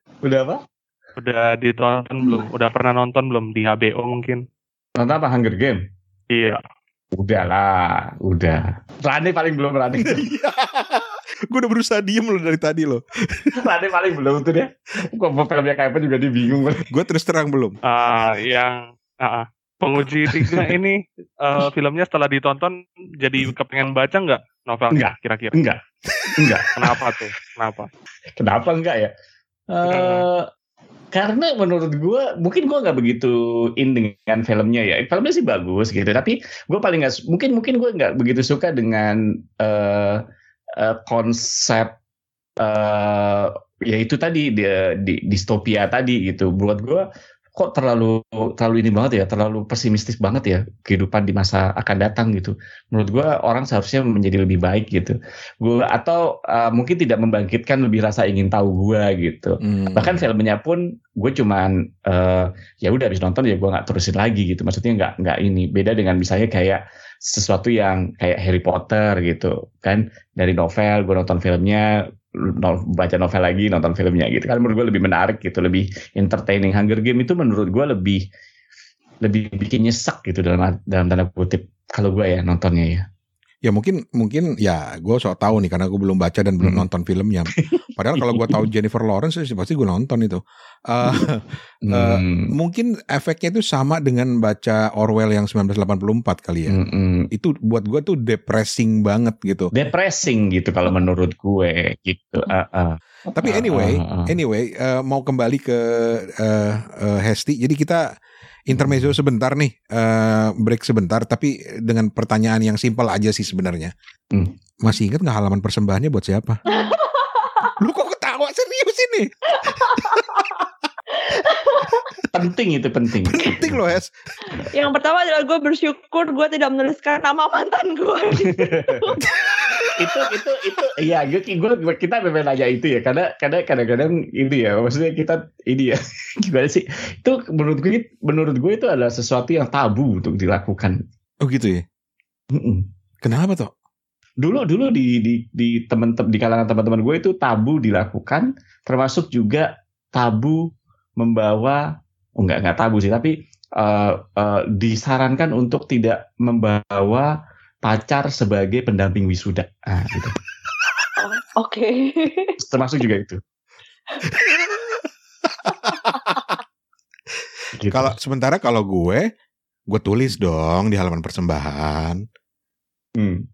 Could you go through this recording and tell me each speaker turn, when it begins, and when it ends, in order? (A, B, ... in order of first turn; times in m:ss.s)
0:00.2-0:00.6 A
0:01.2-0:04.4 B
0:05.0-0:05.8 A
0:06.3-0:06.6 B
0:07.2-0:10.2 A
0:10.0-0:13.6 C
0:13.5-0:16.8 A
0:16.8-0:17.7 C
0:17.9-0:25.6 B
0:20.3-0:20.7 A
0:24.9-0:25.8 A
0:26.4-0:27.2 A
0:26.8-0:27.9 B
0:28.4-0:29.1 A
0:29.7-0:30.5 A
0:29.8-0:30.2 B
0:31.1-0:40.2 A
0:40.8-0:41.9 A
0:42.6-0:47.0 A
0:47.6-1:11.9 A
0:59.6-1:00.3 C
1:12.4-1:18.2 A
1:19.2-1:23.0 A
1:23.6-1:36.8 C
1:26.6-1:26.8 A
1:27.5-1:28.6 A
1:31.8-1:32.5 A
1:36.7-1:37.3 A
1:37.3-1:39.7 C
1:39.7-1:44.3 A
1:43.4-1:48.0 C
1:48.7-1:53.9 C
1:48.7-1:49.2 A
1:54.8-1:56.6 C
1:56.7-1:57.7 D
1:57.8-2:00.2 C
1:59.6-2:00.4 D
2:01.2-2:02.2 D
2:02.3-2:03.9 A
2:03.2-2:04.1 C
2:04.5-2:10.3 D
2:08.4-2:09.0 A
2:10.0-2:21.0 A
2:21.4-2:21.8 C
2:22.5-2:22.9 A
2:23.2-2:23.7 C
2:24.4-2:30.6 A
2:31.2-2:31.8 A
2:32.4-2:37.3 A
2:37.8-2:40.4 A
2:41.2-2:42.6 D
2:42.6-2:43.4 A
2:45.6-2:46.4 C
2:47.8-2:48.1 A
2:47.9-2:49.2 C
2:49.9-2:52.2 C
2:53.2-2:53.4 A